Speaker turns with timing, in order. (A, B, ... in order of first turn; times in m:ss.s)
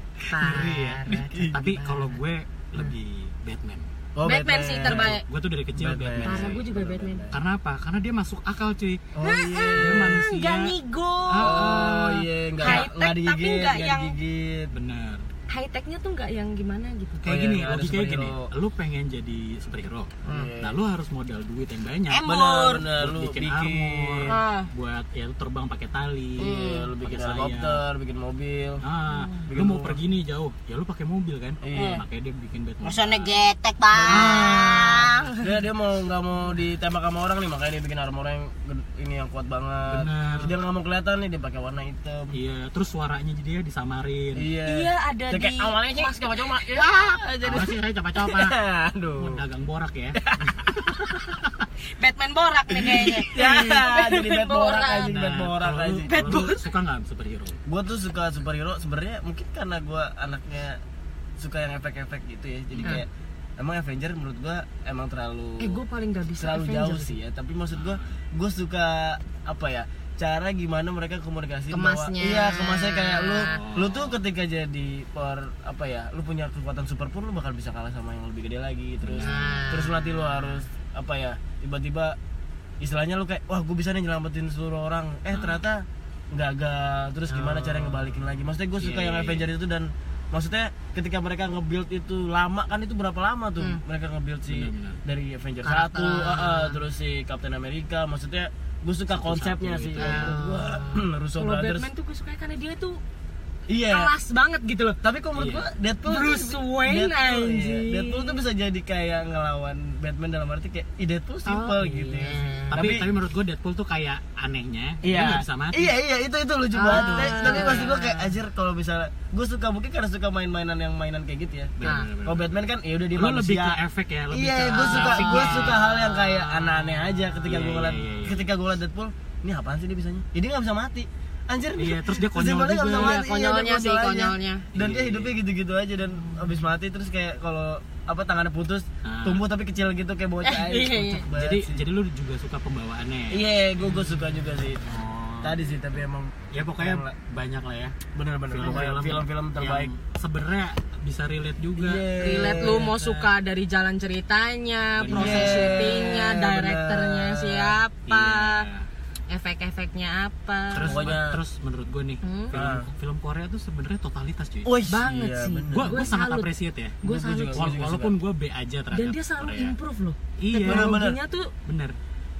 0:00.3-0:02.2 A
0:00.4-0:03.9 B
0:01.1-0:01.8 C
0:04.1-0:05.2 C
0:04.2-0:05.2 A
0:04.9-0:06.6 B
0:05.7-0:07.4 C
0:06.2-0:07.3 A
0:07.3-0:09.0 B
0:09.1-0:10.2 C
0:09.2-0:12.0 A
0:09.7-0:10.7 B
0:11.3-0:12.9 B
0:11.4-0:14.7 C
0:12.6-0:14.1 A
0:14.7-0:15.2 B
0:15.5-0:17.2 A
0:17.2-0:26.5 B
0:17.2-0:18.5 C
0:20.2-0:20.5 A
0:20.2-0:20.8 C
0:22.1-0:22.9 A
0:22.2-0:24.4 C
0:24.3-0:24.7 A
0:26.4-0:28.8 C
0:26.4-0:26.9 A
0:27.0-0:27.8 B
0:28.8-0:33.3 B
0:29.1-0:29.5 A
0:29.5-0:30.0 C
0:31.6-0:32.0 C
0:31.7-0:32.0 A
0:32.8-0:35.5 A
0:33.9-0:34.8 C
0:34.1-0:35.1 B
0:35.4-0:42.3 C
0:39.9-0:40.5 B
0:42.3-0:44.5 B
0:44.3-0:47.7 C
0:44.6-0:47.0 A
0:47.4-0:48.6 B
0:48.2-0:49.4 C
0:49.2-0:50.6 B
0:50.1-0:50.6 C
0:52.0-0:55.1 A
0:52.8-0:56.5 C
0:55.0-0:57.6 B
0:56.0-0:56.6 A
0:57.7-1:00.8 C
1:01.4-1:05.8 C
1:05.6-1:07.2 A
1:06.4-1:22.2 C
1:07.7-1:08.1 B
1:11.7-1:13.6 A
1:13.4-1:14.2 B
1:19.0-1:19.6 B
1:19.1-1:20.3 A
1:22.8-1:41.9 C
1:25.3-1:25.6 B
1:28.7-1:29.5 B
1:34.5-1:35.0 B
1:35.6-1:36.8 A
1:39.1-1:40.4 B
1:40.0-1:43.0 A
1:43.7-1:44.1 C
1:43.9-1:45.0 A
1:45.0-1:53.1 C
1:45.3-1:45.7 B
1:46.0-1:48.4 A
1:51.4-1:52.9 A
1:52.7-1:55.9 B
1:55.0-2:03.8 C
1:56.7-1:58.3 A
1:56.9-1:57.9 B
2:01.8-2:02.5 B
2:01.8-2:02.1 A
2:03.1-2:08.5 B
2:04.3-2:21.8 C
2:04.8-2:05.7 A
2:11.7-2:13.2 B
2:12.9-2:14.6 A
2:14.7-2:15.3 B
2:19.0-2:19.4 B
2:20.4-2:21.2 A
2:21.3-2:24.0 B
2:23.3-2:24.8 C
2:24.8-2:25.7 B
2:25.4-2:27.1 C
2:26.5-2:27.9 B
2:28.1-2:29.9 C
2:28.5-2:32.1 B
2:31.8-2:32.9 C
2:32.2-2:38.6 A
2:32.9-2:33.3 B
2:35.0-2:36.2 B
2:35.1-2:37.8 C
2:38.1-2:38.9 B
2:39.3-2:41.0 A
2:40.7-2:44.8 B
2:40.8-2:41.4 C
2:42.2-2:42.6 A
2:42.5-2:42.9 C
2:44.6-2:46.1 C
2:44.9-2:47.7 A
2:45.7-2:47.0 B
2:47.0-2:48.2 C
2:47.5-2:49.7 B
2:48.9-2:51.5 A
2:50.4-2:50.9 B
2:50.6-2:51.2 C
2:51.6-2:52.0 B